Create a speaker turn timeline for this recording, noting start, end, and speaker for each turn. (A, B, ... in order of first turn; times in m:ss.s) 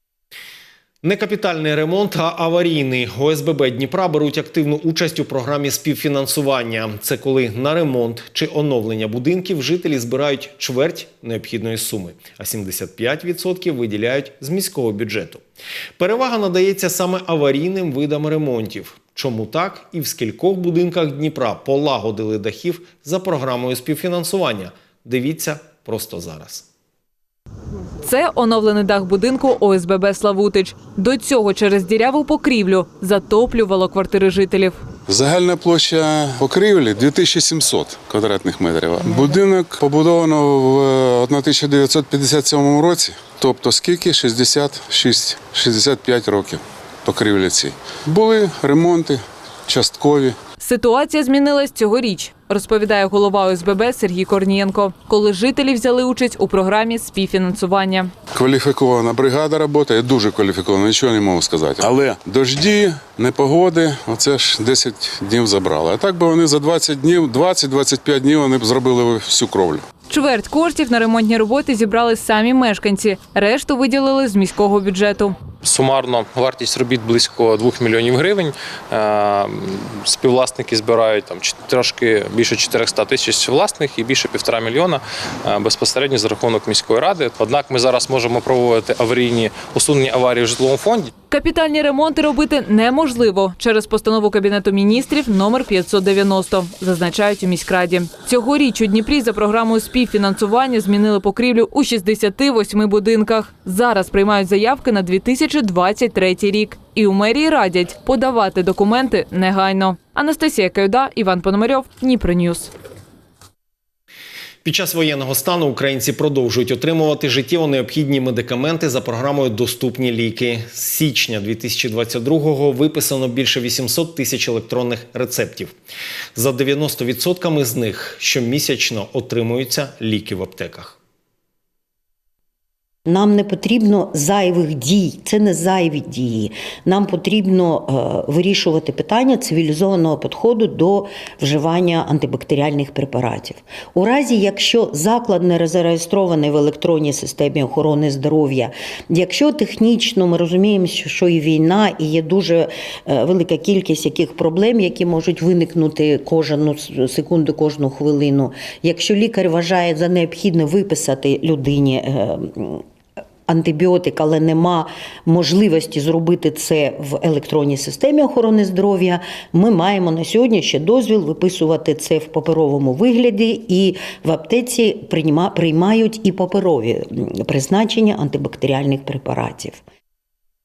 0:01.0-0:15.4 A
0:16.0-0:26.7 A
0:28.0-0:34.8 B
0:35.1-0:50.4 C
0:50.6-0:58.1 B
0:58.3-1:09.8 C
1:10.1-1:15.5 B
1:15.6-1:31.1 D
1:31.3-1:52.7 B
1:54.6-2:05.7 A
2:06.4-2:11.0 A
2:13.1-2:42.8 E
2:43.5-2:59.8 E